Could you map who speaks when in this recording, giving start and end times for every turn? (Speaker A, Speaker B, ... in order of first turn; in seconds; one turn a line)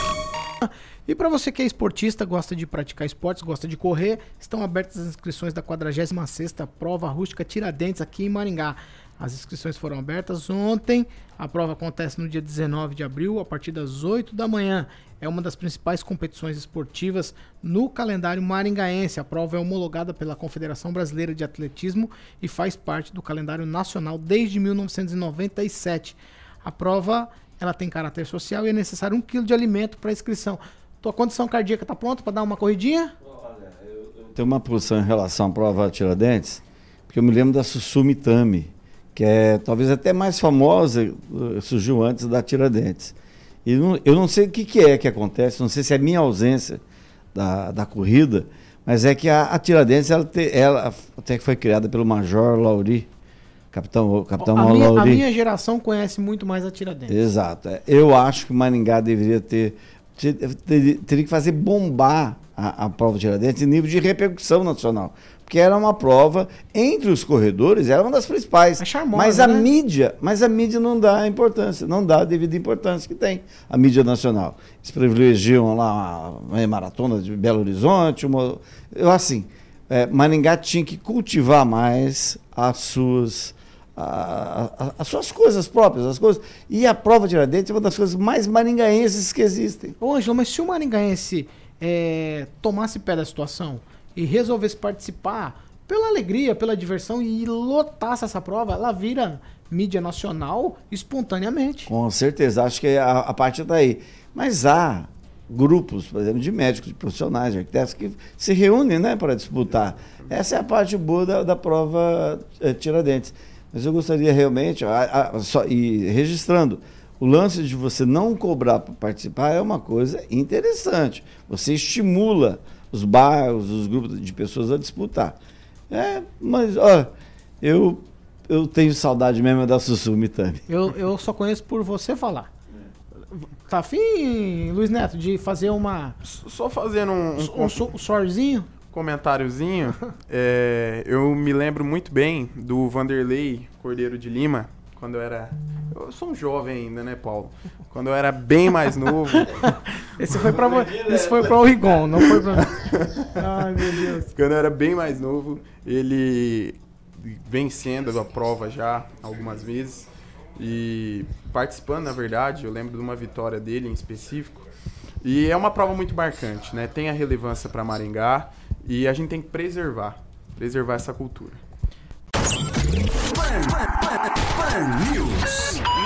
Speaker A: 0.6-33.1
Speaker B: 34.2-46.8
Speaker B: 47.3-53.1
Speaker B: 53.7-55.2
Speaker A: 54.4-57.2
Speaker B: 57.1-90.0
Speaker A: 68.8-69.7
Speaker A: 90.0-101.9
Speaker B: 101.9-125.3
Speaker B: 125.9-127.1
Speaker B: 127.6-130.6
Speaker A: 130.7-132.5
Speaker A: 133.3-136.2
Speaker C: 136.2-137.8
Speaker A: 137.3-138.7
Speaker C: 138.9-150.0
Speaker A: 149.5-152.8
Speaker C: 152.2-153.3
Speaker A: 153.3-154.3
Speaker C: 154.3-164.6
Speaker C: 165.2-171.6
Speaker C: 173.3-175.8